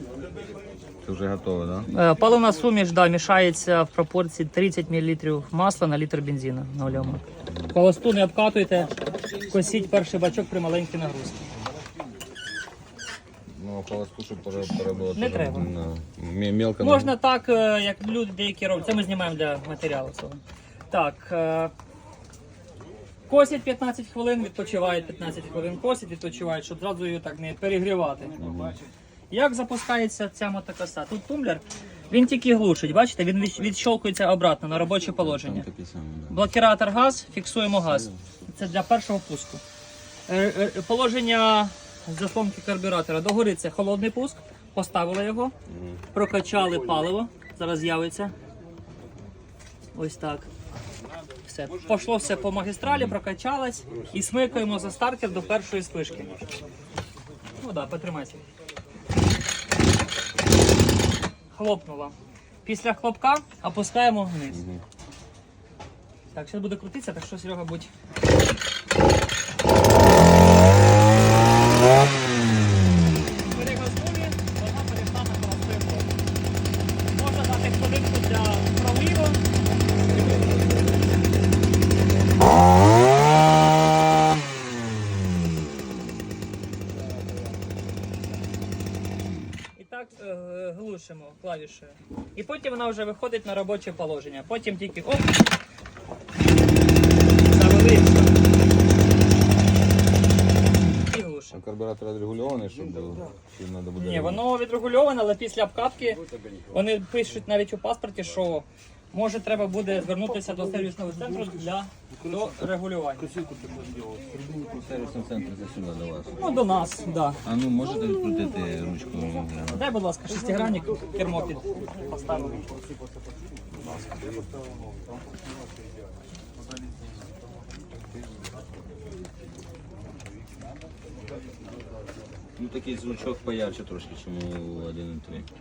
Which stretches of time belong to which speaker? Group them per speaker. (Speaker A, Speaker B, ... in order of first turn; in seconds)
Speaker A: 1.0-1.9, 6.9-7.2, 13.5-17.2, 28.4-28.8, 35.2-36.4, 45.7-46.0, 52.9-53.1, 64.5-64.8, 80.0-82.4, 101.5-104.5, 114.3-116.4, 117.4-119.8, 123.8-124.3, 132.6-135.5
Speaker B: 1.9-11.5, 15.2-15.7, 16.8-21.7, 23.3-28.4, 29.3-35.7, 36.3-39.6, 40.3-45.5, 46.1-48.3, 49.9-50.5, 51.5-56.4, 57.6-58.4, 61.5-64.7, 66.3-67.9, 73.5-76.1, 77.1-79.4, 89.8-95.3, 97.4-98.4, 101.1-101.6, 104.0-113.3, 116.4-117.4, 119.7-122.6